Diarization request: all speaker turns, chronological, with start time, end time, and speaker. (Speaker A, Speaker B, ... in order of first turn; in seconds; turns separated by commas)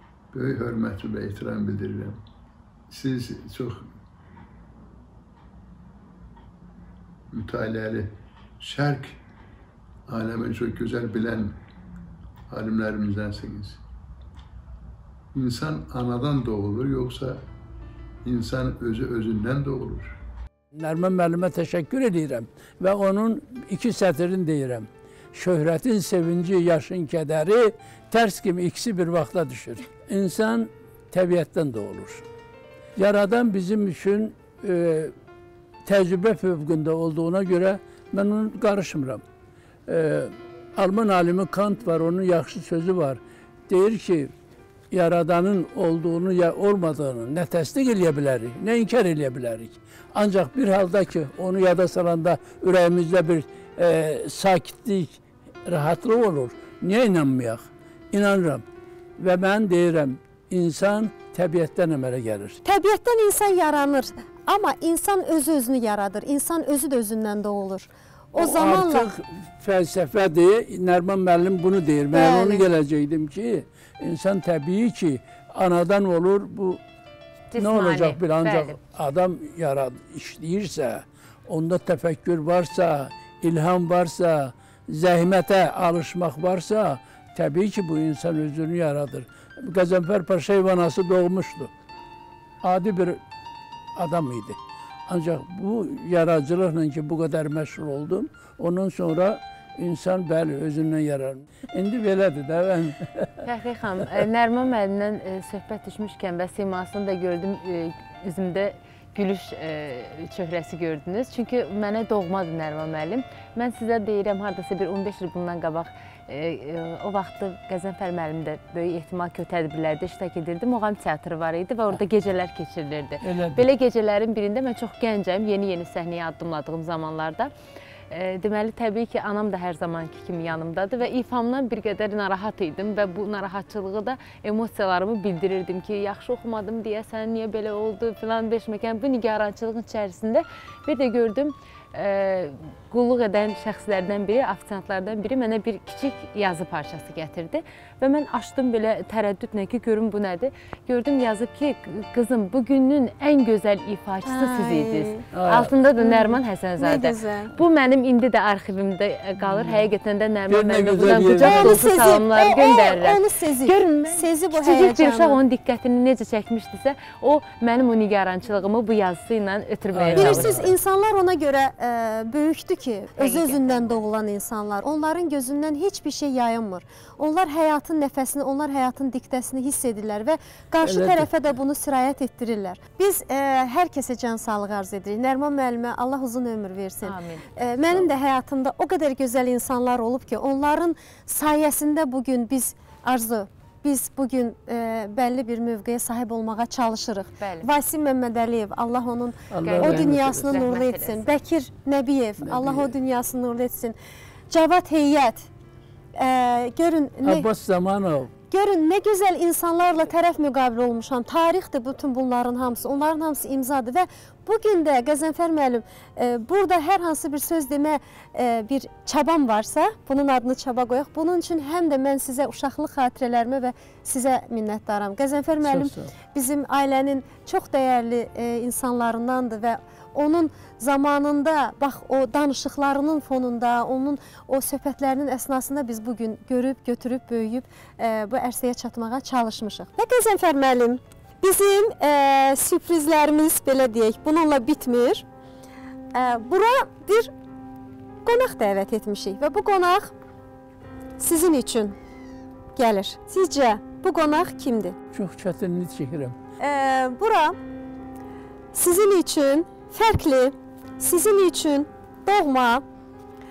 Speaker A: 0.3-2.2, Speaker A: 2.9-3.9, Speaker A: 7.3-9.2, Speaker A: 10.1-11.6, Speaker A: 12.5-13.8, Speaker A: 15.3-17.4, Speaker A: 18.2-20.2, Speaker B: 20.7-32.2, Speaker B: 33.0-35.1, Speaker B: 35.9-39.2, Speaker B: 39.9-44.3, Speaker B: 44.9-58.6, Speaker B: 59.2-62.6, Speaker C: 62.6-69.1, Speaker B: 68.4-76.8, Speaker C: 72.1-72.7, Speaker D: 77.5-78.8, Speaker B: 77.6-91.7, Speaker B: 92.6-93.2, Speaker B: 94.0-103.3, Speaker D: 103.4-127.5, Speaker B: 123.2-123.7, Speaker D: 128.1-170.6, Speaker C: 154.2-155.2, Speaker B: 155.3-155.7, Speaker C: 156.0-157.5, Speaker B: 160.5-162.0, Speaker C: 161.4-165.4, Speaker B: 169.9-170.7, Speaker C: 170.2-204.0, Speaker D: 173.2-174.0, Speaker B: 180.8-181.3, Speaker D: 187.0-187.6, Speaker D: 197.4-197.7, Speaker B: 199.5-200.5, Speaker D: 199.6-201.2, Speaker B: 202.4-202.9, Speaker C: 204.5-205.5, Speaker C: 206.2-207.5, Speaker B: 207.2-208.3, Speaker C: 208.5-245.2, Speaker B: 225.6-226.1, Speaker C: 246.1-247.3, Speaker C: 248.2-250.1, Speaker C: 251.2-252.0, Speaker C: 252.8-255.0, Speaker B: 255.1-256.4, Speaker C: 256.6-257.6, Speaker C: 258.7-262.8